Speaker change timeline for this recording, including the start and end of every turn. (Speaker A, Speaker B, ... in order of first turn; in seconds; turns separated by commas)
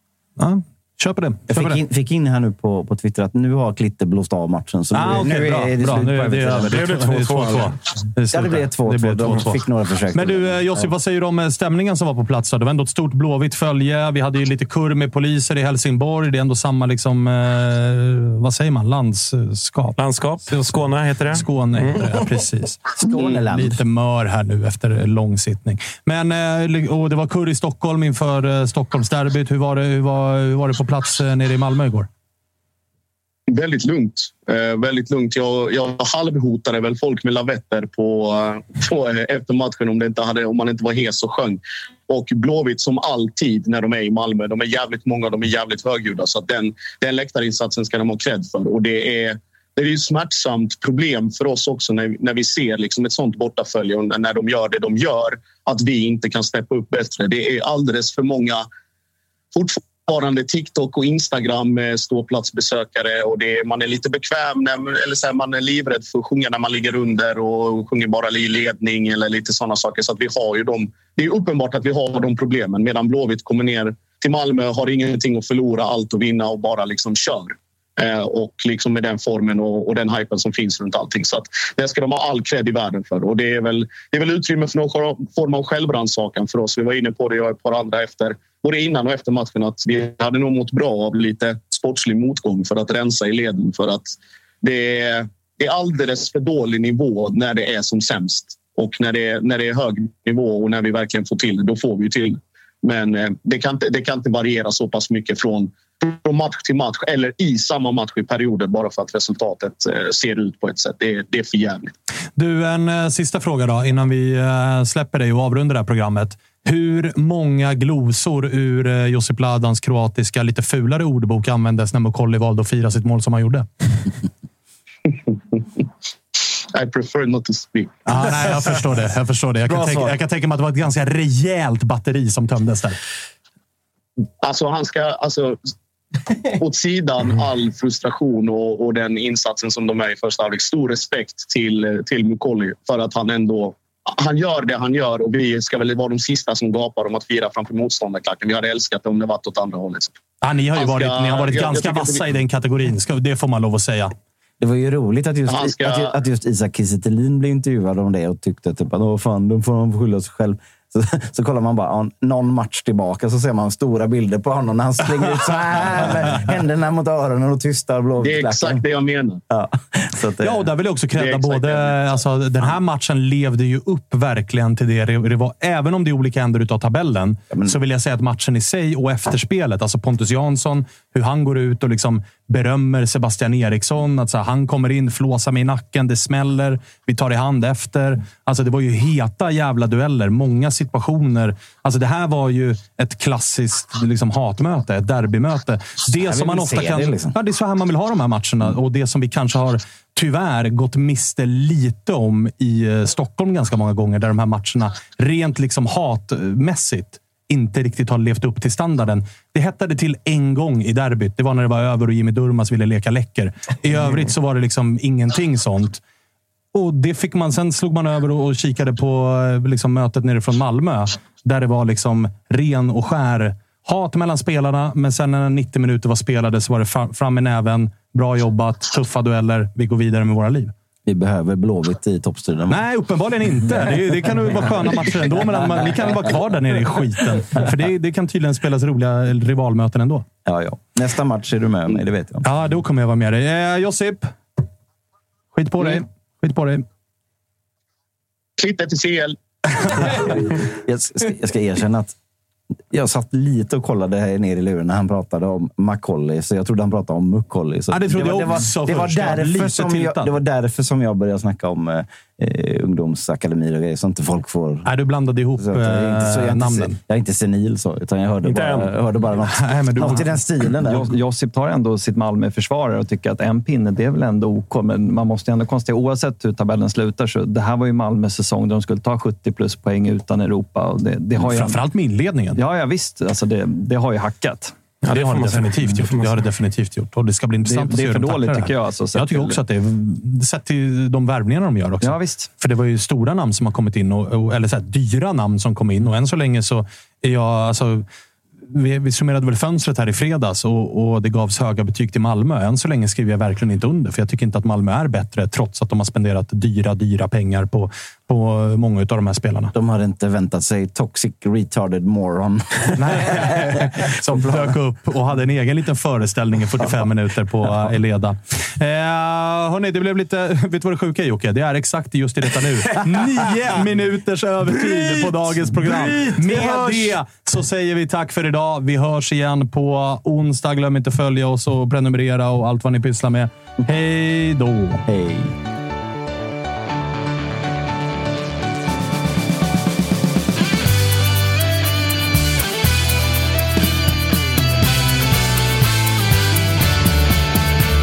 Speaker A: 0.4-1.8, Speaker B: 1.5-6.9, Speaker A: 4.9-9.6, Speaker C: 6.6-7.7, Speaker B: 8.3-10.9, Speaker A: 10.1-19.9, Speaker C: 20.0-22.0, Speaker A: 21.3-32.1, Speaker B: 22.9-23.8, Speaker D: 33.5-58.6, Speaker D: 59.5-111.9, Speaker A: 112.3-123.7, Speaker D: 126.7-128.3, Speaker A: 128.1-133.0, Speaker D: 134.4-135.6, Speaker D: 136.6-150.1, Speaker A: 150.4-154.1, Speaker D: 150.7-152.3, Speaker B: 154.6-168.8, Speaker D: 155.5-156.1, Speaker D: 168.2-169.4, Speaker B: 169.5-170.7, Speaker A: 170.4-216.0, Speaker D: 171.2-172.2, Speaker B: 177.5-177.8, Speaker B: 196.1-197.3, Speaker A: 216.7-230.7, Speaker B: 231.1-232.8, Speaker A: 232.7-240.2, Speaker B: 234.2-236.0, Speaker B: 240.4-242.4, Speaker A: 242.4-244.3, Speaker A: 245.5-246.8, Speaker D: 248.6-249.4, Speaker B: 249.9-252.2, Speaker B: 252.9-264.9, Speaker A: 257.9-260.4, Speaker A: 264.9-267.0, Speaker B: 265.6-271.1, Speaker C: 268.4-268.9, Speaker A: 269.5-270.4, Speaker E: 270.9-281.8, Speaker A: 281.4-282.6, Speaker E: 282.6-284.7, Speaker C: 285.0-286.4, Speaker A: 285.1-298.0, Speaker E: 287.6-289.6, Speaker E: 292.0-292.5, Speaker A: 298.7-309.7, Speaker B: 309.7-314.7, Speaker A: 313.0-335.0, Speaker B: 325.9-327.1, Speaker B: 335.1-335.5